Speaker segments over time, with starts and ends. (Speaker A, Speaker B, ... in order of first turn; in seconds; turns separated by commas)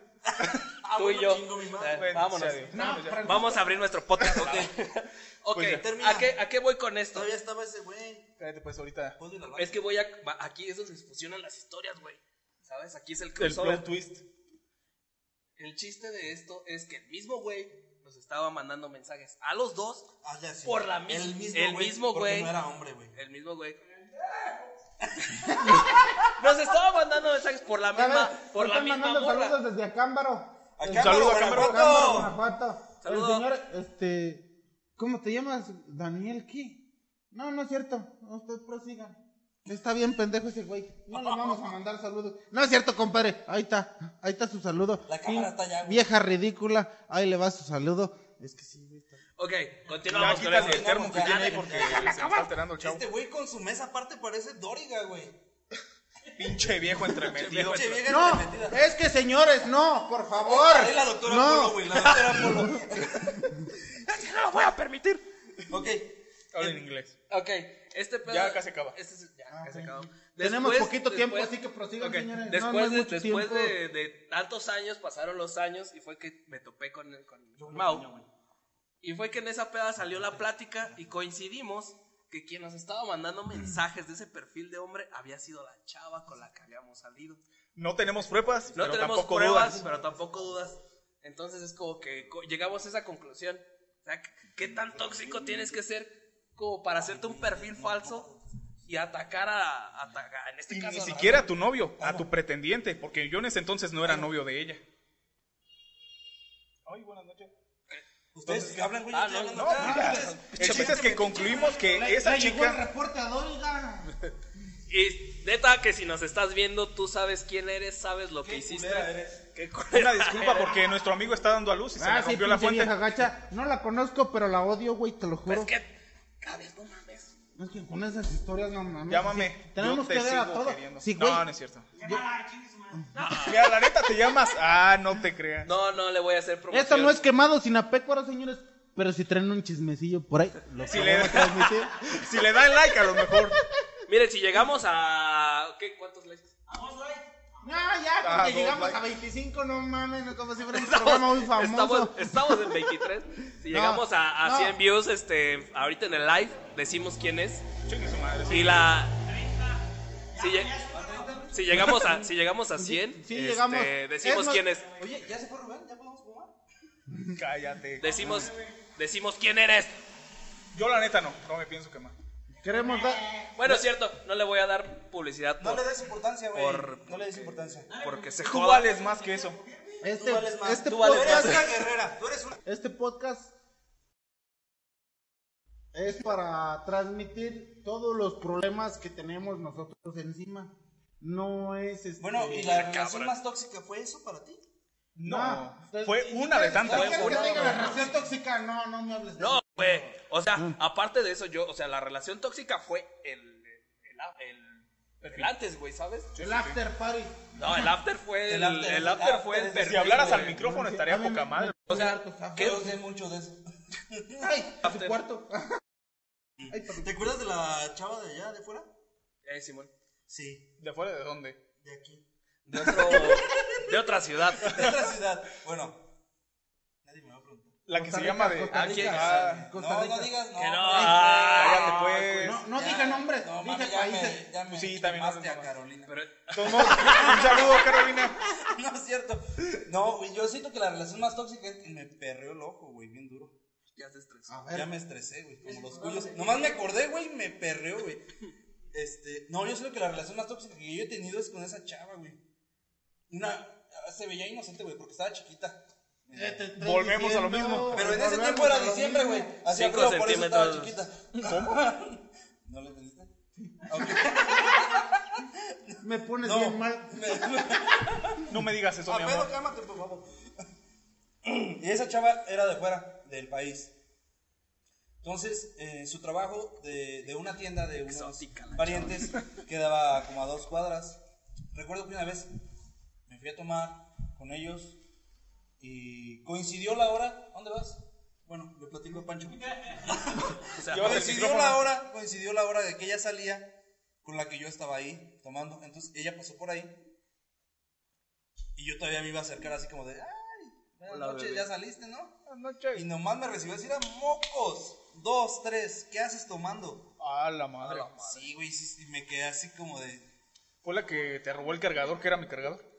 Speaker A: 0.3-2.1, Speaker B: 0.9-7.3, Speaker C: 2.0-3.5, Speaker D: 2.7-3.7, Speaker A: 4.3-4.8, Speaker C: 5.5-5.8, Speaker A: 5.7-6.4, Speaker A: 7.1-8.3, Speaker C: 8.4-9.2, Speaker A: 9.2-9.8, Speaker B: 9.6-13.9, Speaker C: 13.4-14.2, Speaker B: 15.6-20.1, Speaker A: 20.2-23.1, Speaker B: 20.6-22.6, Speaker B: 23.1-23.8, Speaker A: 25.0-26.2, Speaker D: 25.5-25.8, Speaker B: 26.3-29.6, Speaker D: 27.9-34.5, Speaker A: 30.8-32.4, Speaker C: 30.9-32.2, Speaker B: 33.0-33.5, Speaker D: 35.0-36.8, Speaker D: 37.3-49.2, Speaker B: 41.1-41.7, Speaker A: 45.1-46.1, Speaker B: 49.4-52.4, Speaker A: 50.1-55.4, Speaker C: 50.1-53.0, Speaker C: 56.4-58.0, Speaker B: 57.2-58.1, Speaker A: 57.4-58.9, Speaker D: 58.1-62.8, Speaker A: 60.4-63.5, Speaker B: 64.0-65.2, Speaker A: 65.7-66.8, Speaker C: 66.5-67.2, Speaker B: 67.3-78.1, Speaker C: 68.3-69.0, Speaker D: 69.5-73.8, Speaker A: 77.6-78.3, Speaker B: 79.0-87.4, Speaker A: 80.1-81.0, Speaker C: 87.8-89.8, Speaker A: 88.4-90.7, Speaker B: 88.7-98.3, Speaker A: 94.6-95.7, Speaker A: 97.0-98.5, Speaker B: 98.9-101.5, Speaker C: 100.7-104.8, Speaker A: 102.0-102.3, Speaker C: 106.9-107.5, Speaker A: 108.3-111.8, Speaker C: 108.5-108.7, Speaker B: 109.1-111.2, Speaker C: 109.5-112.8, Speaker D: 109.8-110.4, Speaker D: 111.6-114.1, Speaker B: 114.9-120.8, Speaker A: 118.4-119.4, Speaker C: 119.9-123.0, Speaker D: 122.0-125.7, Speaker B: 125.5-127.3, Speaker D: 127.6-131.5, Speaker C: 129.1-131.9, Speaker E: 132.0-133.0, Speaker B: 133.1-133.8, Speaker C: 133.4-135.7, Speaker B: 135.6-137.3, Speaker D: 136.7-142.2, Speaker C: 140.8-143.6, Speaker B: 144.1-146.5, Speaker E: 146.7-147.8, Speaker D: 147.6-153.0, Speaker C: 148.2-149.0, Speaker B: 150.7-157.7, Speaker D: 153.7-154.8, Speaker C: 157.8-158.9, Speaker B: 158.5-159.2, Speaker E: 160.3-161.8, Speaker B: 160.3-160.8, Speaker A: 160.9-161.8, Speaker B: 161.5-164.9, Speaker D: 162.8-164.7, Speaker A: 165.0-166.5, Speaker C: 167.3-168.5, Speaker B: 168.0-170.0, Speaker E: 168.0-168.8, Speaker C: 170.7-172.2, Speaker D: 172.6-173.8, Speaker E: 172.7-173.5, Speaker B: 173.6-175.9, Speaker A: 175.6-177.9, Speaker B: 176.5-178.9, Speaker E: 177.9-180.0, Speaker C: 178.4-179.6, Speaker D: 180.0-181.8, Speaker A: 180.2-182.6, Speaker B: 180.9-181.7, Speaker D: 182.7-183.5, Speaker D: 185.9-192.8, Speaker A: 192.2-194.6, Speaker B: 192.5-193.3, Speaker C: 195.2-198.0, Speaker D: 195.2-200.8, Speaker A: 196.8-198.2, Speaker B: 196.9-198.2, Speaker B: 199.4-206.3, Speaker C: 205.2-205.5, Speaker C: 206.3-206.8, Speaker D: 206.4-207.9, Speaker B: 207.6-210.6, Speaker A: 208.5-210.5, Speaker C: 209.8-212.0, Speaker D: 210.5-213.0, Speaker B: 211.9-212.2, Speaker A: 212.5-214.6, Speaker D: 214.4-215.8, Speaker B: 214.8-215.2, Speaker A: 216.6-218.9, Speaker D: 216.7-217.2, Speaker B: 219.4-219.9, Speaker A: 220.3-220.7, Speaker C: 220.8-221.6, Speaker A: 221.8-224.0, Speaker B: 222.7-224.9, Speaker A: 224.6-226.0, Speaker C: 224.7-225.0, Speaker A: 227.0-227.8, Speaker C: 227.9-229.7, Speaker D: 227.9-230.4, Speaker B: 228.7-229.5, Speaker A: 229.2-232.0, Speaker B: 230.6-232.5, Speaker D: 230.9-231.3, Speaker C: 231.6-232.6, Speaker D: 232.4-234.4, Speaker A: 232.7-237.9, Speaker C: 234.7-235.7, Speaker B: 236.1-237.6, Speaker C: 236.5-238.4, Speaker A: 238.4-243.6, Speaker B: 244.0-244.6, Speaker D: 244.5-244.9, Speaker A: 244.7-248.2, Speaker E: 245.6-246.8, Speaker A: 248.9-252.4, Speaker A: 253.3-256.7, Speaker D: 256.3-259.5, Speaker C: 256.8-258.1, Speaker A: 257.9-263.3, Speaker B: 259.7-261.0, Speaker C: 261.4-261.8, Speaker D: 263.7-264.4, Speaker A: 263.8-270.5, Speaker D: 266.0-267.9, Speaker C: 268.5-269.5, Speaker A: 271.4-273.9, Speaker A: 275.2-281.2, Speaker B: 278.1-279.3, Speaker A: 281.7-282.5, Speaker A: 283.3-285.0, Speaker A: 285.8-297.0, Speaker B: 290.7-291.4, Speaker C: 290.9-291.9, Speaker A: 298.8-302.4, Speaker B: 301.1-301.7, Speaker C: 302.5-303.1, Speaker A: 302.9-307.1, Speaker C: 307.2-308.1, Speaker B: 307.8-308.4, Speaker A: 308.2-310.3, Speaker C: 310.8-312.8